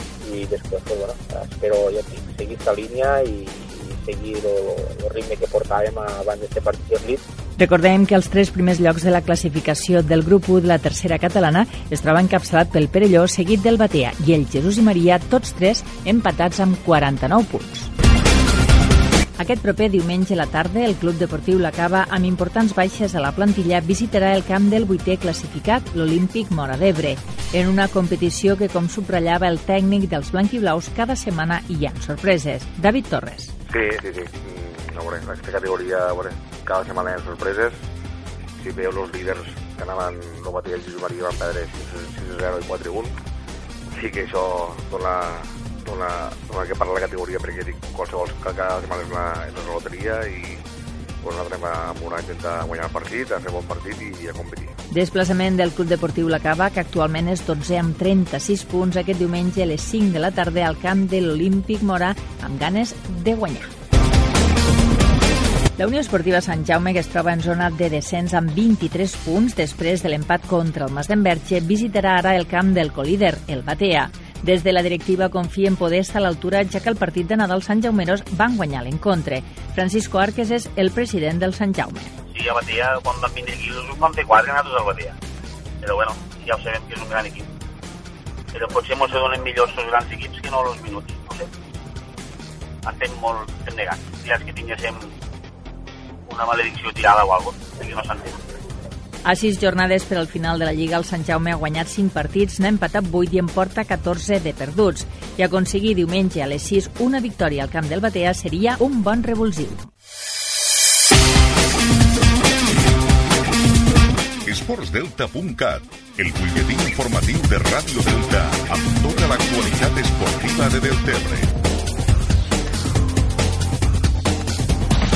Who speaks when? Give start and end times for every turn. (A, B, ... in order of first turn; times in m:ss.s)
0:00.2-0:07.2 A
0:07.6-0:17.9 B
0:19.4-0:33.5 B
0:33.7-0:37.8 C
0:38.6-0:43.2 C
0:43.9-0:50.6 C
0:51.2-0:54.7 C
0:54.9-1:03.7 B
1:05.8-1:22.1 B
1:22.3-1:25.2 D
1:25.8-1:27.5 D
1:28.5-1:31.5 D
1:32.8-1:35.1 D
1:36.3-1:38.4 D
1:39.2-1:49.9 B
1:54.4-2:01.5 E